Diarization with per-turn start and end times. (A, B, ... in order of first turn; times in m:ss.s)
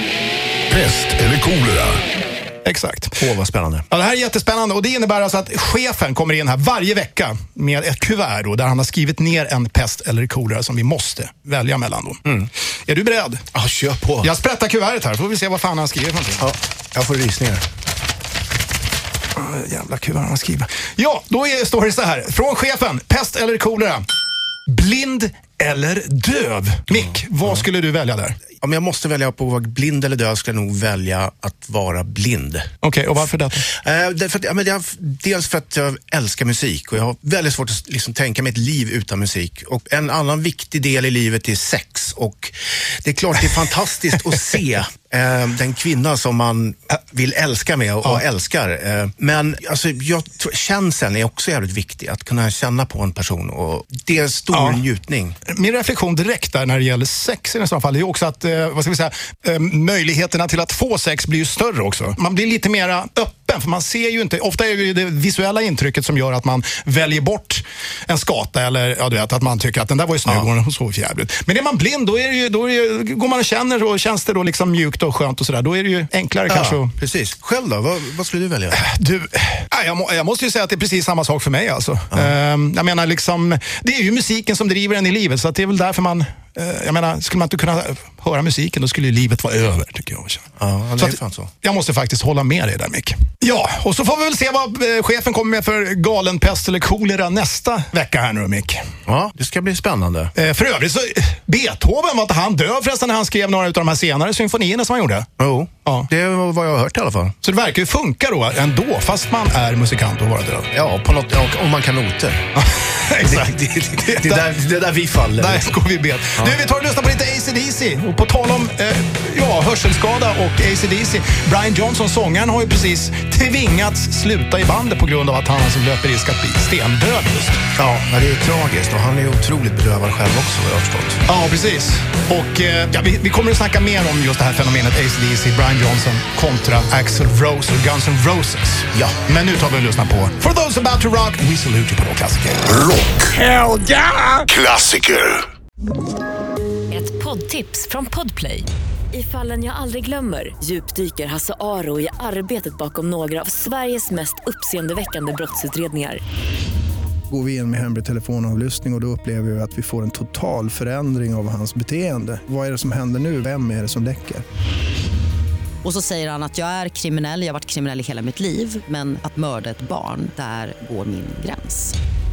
0:00.7-0:02.0 A
0:02.6-0:03.2 B
0:03.2-0:03.8 C
0:03.9-0:12.2 B
0:12.9-0:13.4 B
0:13.5-0:14.3 C
0:14.2-0:16.5 B
0:16.4-0:17.6 C
0:19.4-0:24.0 B
0:24.7-0:28.4 B
0:28.6-0:32.7 C
0:32.8-0:33.6 B
0:33.8-0:42.5 C
0:43.0-0:55.4 C
0:54.5-0:54.8 B
0:55.5-1:16.9 B
1:16.5-1:18.8 C
1:18.7-1:38.8 B
1:30.6-1:31.5 C
1:39.1-1:40.3 C
1:40.4-1:45.3 B
1:45.4-1:47.4 C
1:47.4-1:50.7 B
1:50.7-1:52.5 C
1:52.6-1:54.4 B
1:53.2-1:55.7 C
1:55.4-2:07.7 B
2:07.8-2:11.2 C
2:11.3-2:22.9 B
2:23.0-2:23.3 A
2:24.6-2:25.4 A
2:26.9-2:36.2 D
2:37.3-2:44.4 E
2:45.9-2:51.8 F